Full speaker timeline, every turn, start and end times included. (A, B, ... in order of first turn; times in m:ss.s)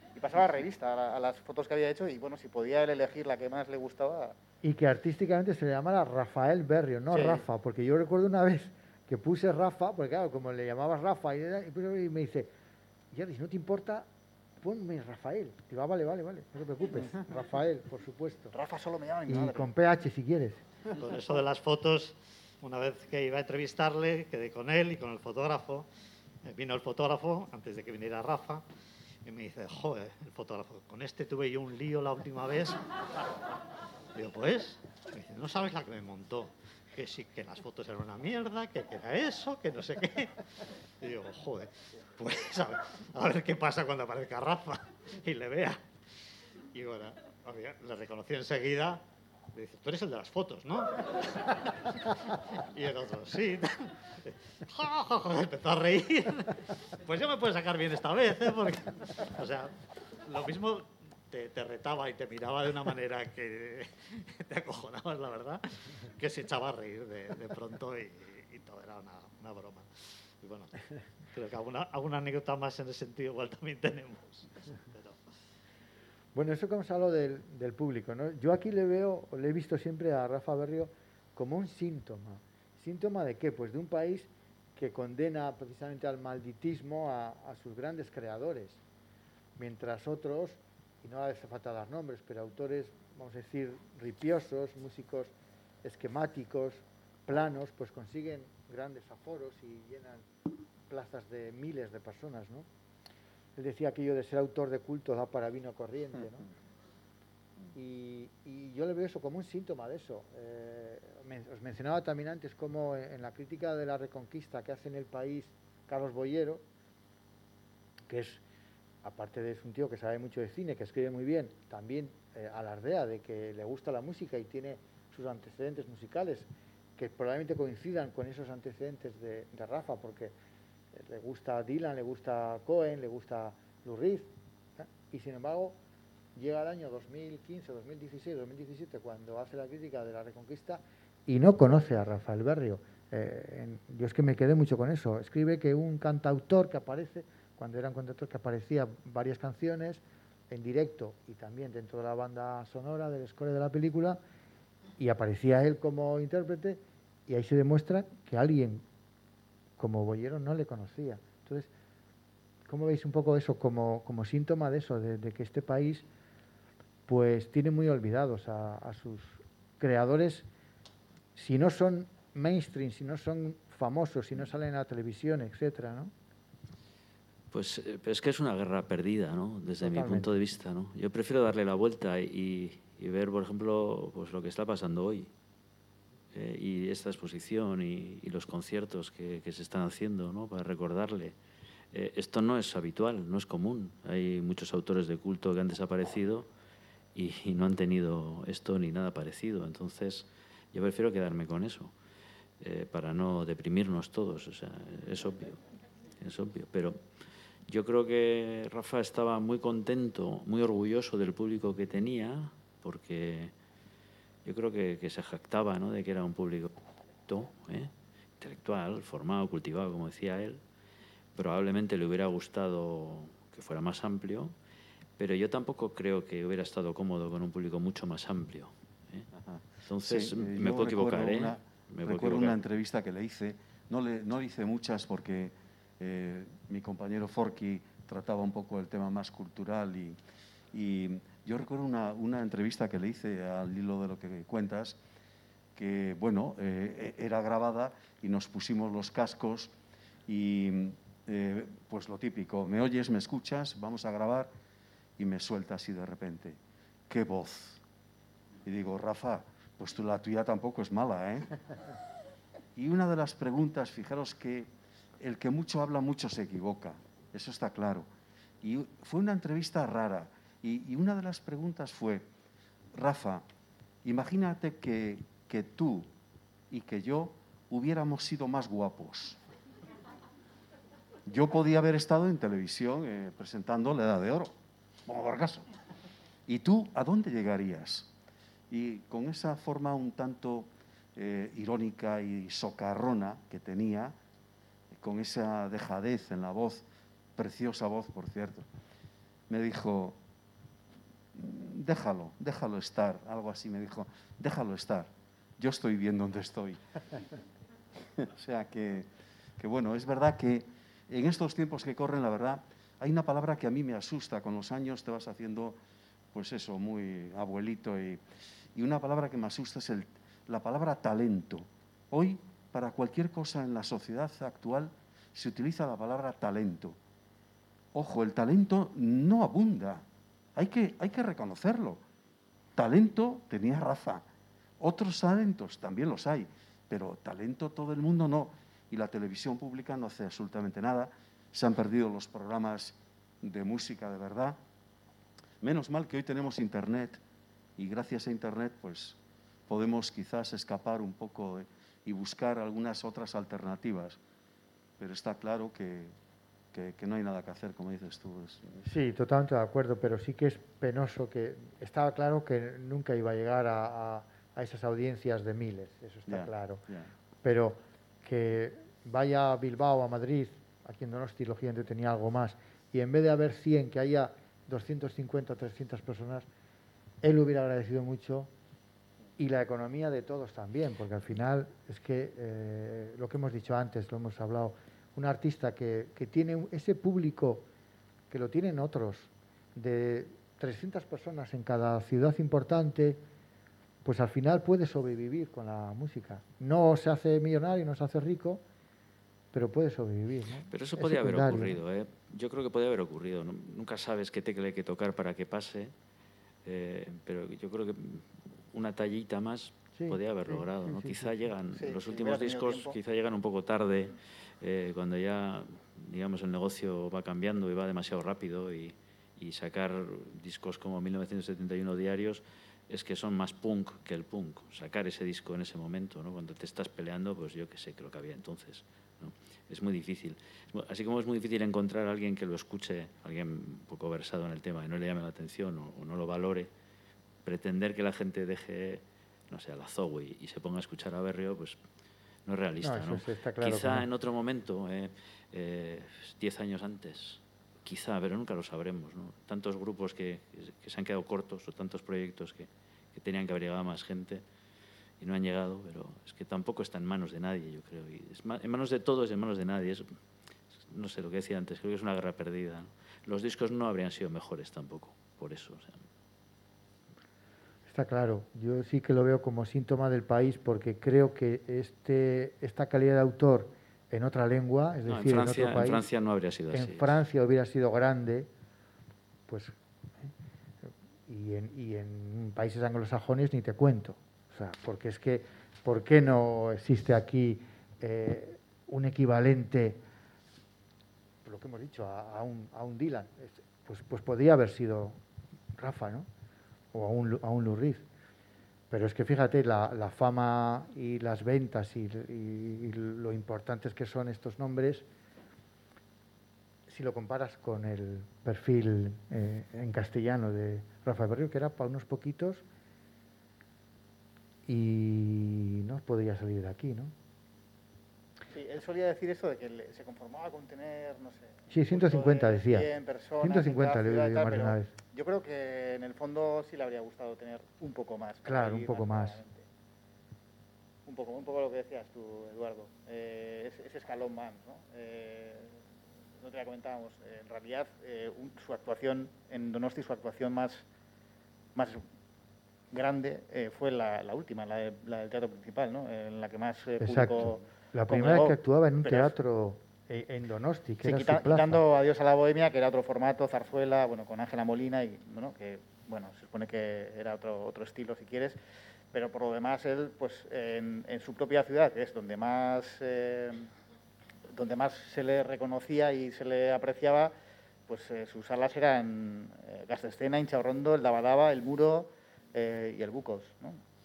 0:00.1-0:04.4 A
0:04.6-0:12.5 B
0:07.1-0:07.4 A
0:13.1-0:14.1 B
0:14.6-0:18.5 B
0:18.5-0:19.7 A
0:19.3-0:20.6 B
0:21.0-0:25.9 C
0:26.4-0:28.6 C
0:29.2-0:32.8 C
0:34.1-0:40.4 C
0:41.0-0:45.8 C
0:46.7-0:49.0 C
0:49.6-1:15.3 C
1:16.4-1:28.8 B
1:29.6-1:35.3 B
1:35.8-1:40.3 B
1:40.9-1:42.7 B
1:43.6-1:46.5 B
1:47.7-1:56.6 B
1:58.1-1:58.4 B
1:59.0-2:10.3 B
2:10.9-2:15.8 B
2:16.4-2:34.2 B
2:35.0-2:38.8 B
2:39.8-2:41.7 B
2:42.7-2:46.1 B
2:47.1-2:50.5 B
2:51.4-2:56.1 B
2:57.5-3:05.3 D
2:59.8-3:00.3 B
3:06.3-3:11.4 D
3:11.9-3:16.5 D
3:17.2-3:21.9 D
3:22.6-3:25.6 D
3:26.2-3:27.0 D
3:27.7-3:33.5 D
3:34.4-3:40.6 D
3:41.4-3:44.5 D
3:45.2-3:49.3 D
3:49.3-4:00.2 E
3:49.8-3:52.6 D
4:00.7-4:05.0 E
4:05.8-4:09.7 E
4:10.3-4:14.5 E
4:15.2-4:17.8 E
4:18.6-4:21.6 E
4:22.8-4:28.1 E
4:28.6-4:32.3 E
4:32.9-4:33.4 E
4:34.0-4:36.1 E
4:36.7-4:39.4 E
4:41.3-4:45.7 E
4:46.5-4:48.1 E
4:48.7-4:54.1 E
4:54.9-4:56.8 E
4:57.4-4:58.7 E
4:59.5-5:00.2 E
5:01.3-5:07.3 E
5:08.2-5:15.8 E
5:16.3-5:18.2 E
5:18.8-5:27.0 E
5:27.9-5:32.0 E
5:32.8-5:34.2 E
5:34.8-5:44.6 E
5:45.6-5:47.2 E
5:47.8-5:54.2 E
5:55.0-5:56.1 E
5:56.7-5:58.8 E
5:58.9-6:06.8 B
6:06.3-6:07.1 E
6:07.4-6:16.5 B
6:17.2-6:18.5 B
6:19.4-6:27.7 B
6:28.3-6:33.2 B
6:34.0-6:38.6 B
6:39.5-6:41.8 B
6:40.7-6:45.9 D
6:46.6-7:16.7 D
6:50.0-6:51.4 B
6:51.8-6:53.0 A
7:17.4-7:21.8 D
7:22.5-7:34.4 D
7:22.8-7:24.1 B
7:35.2-7:40.1 D
7:40.8-7:46.0 D
7:47.9-7:56.0 B
7:55.1-7:57.1 D
7:56.7-7:58.5 B
7:59.5-8:00.3 B
8:01.3-8:10.0 B
8:11.4-8:15.2 B
8:15.8-8:16.3 B
8:16.9-8:18.0 B
8:18.9-8:25.0 B
8:26.9-8:32.6 B
8:34.7-8:37.1 B
8:38.5-8:49.7 A
8:41.7-8:42.9 B
8:43.4-8:44.9 B
8:48.4-8:49.4 B
8:51.1-8:55.8 A
8:56.4-9:00.8 A
9:01.8-9:02.0 A
9:02.9-9:09.3 A
9:07.0-9:11.8 B
9:11.0-9:18.6 A
9:19.1-9:23.7 A
9:24.5-9:27.3 A
9:27.9-9:33.8 A